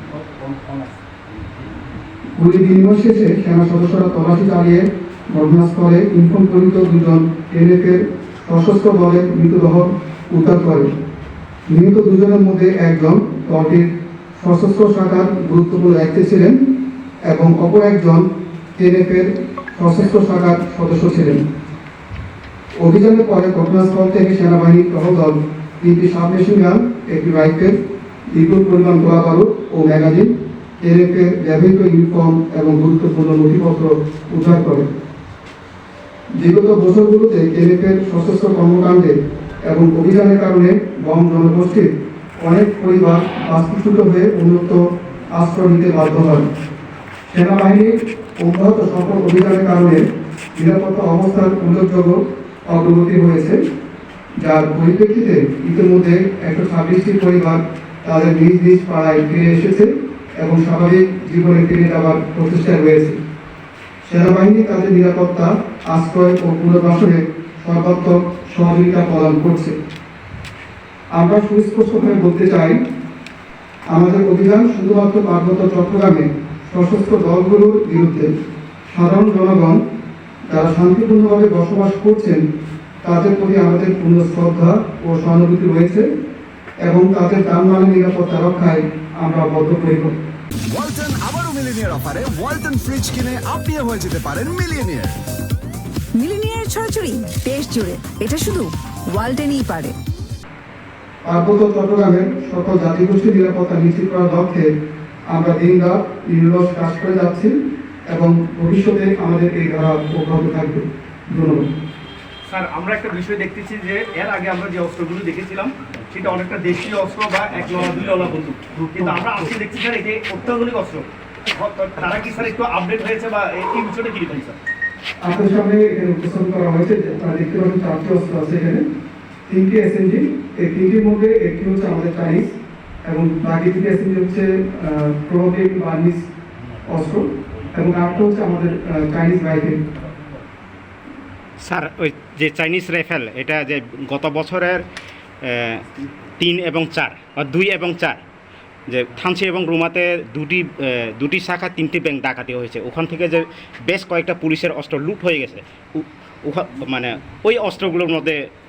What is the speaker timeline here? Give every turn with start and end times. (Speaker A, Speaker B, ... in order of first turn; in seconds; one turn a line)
Speaker A: 0.4-0.8
Speaker B: 2.4-10.9
Speaker B: 11.7-16.6
Speaker B: 17.3-18.2
Speaker B: 18.8-21.4
Speaker B: 22.8-27.7
Speaker B: 28.3-34.9
Speaker B: 36.4-39.1
Speaker B: 39.7-41.9
Speaker B: 42.4-44.8
Speaker B: 45.3-46.4
Speaker B: 47.3-50.0
Speaker B: 50.5-53.6
Speaker B: 54.4-63.1
Speaker B: 64.0-69.7
Speaker B: 71.1-72.8
Speaker B: 73.9-78.3
Speaker B: 78.9-79.8
Speaker B: 80.5-82.4
Speaker B: 83.0-86.0
Speaker B: 86.8-90.1
Speaker C: 90.7-95.2
Speaker D: 96.2-100.0
Speaker B: 101.2-104.7
Speaker B: 105.3-107.5
Speaker B: 108.1-111.6
Speaker A: 112.5-124.6
Speaker B: 125.2-128.8
Speaker B: 129.5-136.2
Speaker B: 136.8-139.8
Speaker E: 141.6-144.8
Speaker E: 145.4-145.8
Speaker E: 146.4-148.2
Speaker E: 148.9-158.4